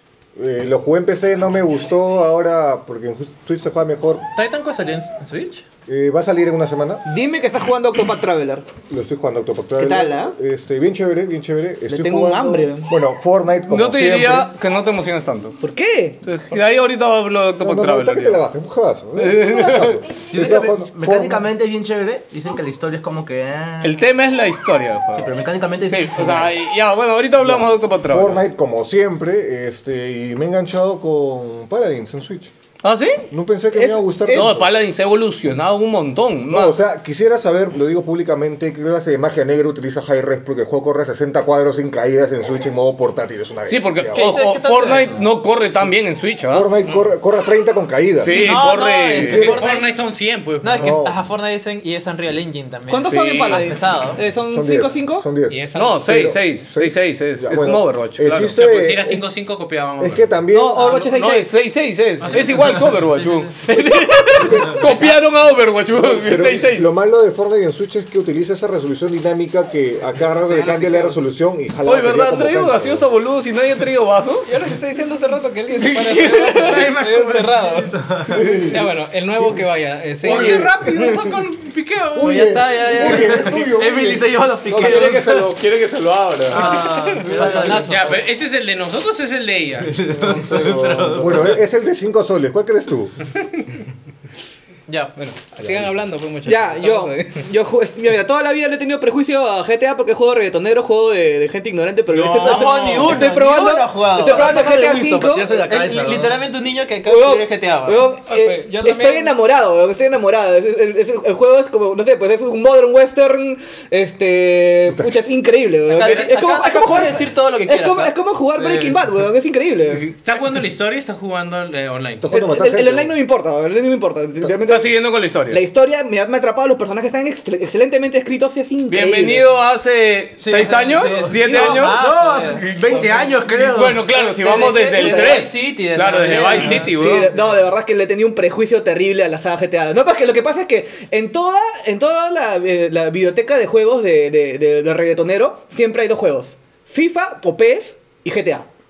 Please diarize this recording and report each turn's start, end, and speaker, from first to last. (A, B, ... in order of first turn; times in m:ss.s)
0:00.4-0:04.2 A
0:04.4-0:05.6 B
0:05.9-0:07.0 A
0:07.1-0:08.7 C
0:08.9-0:14.5 A
0:09.8-0:10.4 C
0:11.9-0:12.9 C
0:13.7-0:15.6 D
0:15.6-0:16.2 C
0:16.2-0:18.5 D
0:17.6-0:21.5 A
0:19.2-0:20.1 D
0:20.3-0:24.0 E
0:23.8-0:25.3 D
0:25.1-0:26.6 E
0:25.9-0:28.5 D
0:27.4-0:32.5 A
0:32.8-0:33.3 D
0:33.3-0:34.7 A
0:33.8-0:34.6 C
0:34.2-0:36.8 D
0:36.5-0:44.3 A
0:43.7-0:46.7 D
0:44.1-0:45.2 B
0:46.5-0:48.4 A
0:48.2-0:49.6 D
0:48.3-0:49.9 B
0:49.2-0:51.0 F
0:49.2-0:49.6 A
0:50.6-0:54.2 B
0:50.8-0:51.2 A
0:52.9-0:55.3 C
0:53.1-0:53.6 D
0:54.5-0:59.2 A
0:55.5-0:56.3 G
0:55.8-0:58.6 D
0:58.5-1:00.4 F
1:00.0-1:00.9 A
1:00.5-1:01.5 C
1:01.1-1:06.9 D
1:02.2-1:03.0 F
1:02.3-1:03.6 B
1:04.4-1:05.0 A
1:05.9-1:13.1 A
1:10.6-1:11.2 G
1:11.8-1:14.6 D
1:14.5-1:20.8 G
1:15.8-1:16.9 D
1:16.6-1:18.4 E
1:18.3-1:19.6 A
1:20.2-1:21.2 A
1:20.2-1:23.1 F
1:22.2-1:24.3 A
1:22.2-1:23.7 B
1:23.0-1:25.5 E
1:24.7-1:26.8 D
1:26.5-1:28.0 E
1:26.5-1:28.2 B
1:27.4-1:27.8 A
1:27.8-1:30.0 F
1:29.9-1:31.6 E
1:30.2-1:31.4 D
1:31.2-1:33.2 A
1:34.9-1:35.1 B
1:35.2-1:37.4 G
1:35.6-1:35.9 A
1:36.4-1:45.6 C
1:42.1-1:43.3 E
1:42.3-1:49.3 B
1:44.3-1:46.4 E
1:47.0-2:00.1 C
1:48.3-1:49.0 G
1:55.9-1:58.9 B
2:00.2-2:02.3 F
2:02.2-2:03.1 A
2:02.3-2:05.0 C
2:04.5-2:05.6 D
2:05.5-2:09.4 C
2:08.9-2:12.0 D
2:10.4-2:13.0 B
2:11.1-2:14.0 E
2:13.5-2:17.3 D
2:14.1-2:17.1 B
2:16.7-2:28.7 C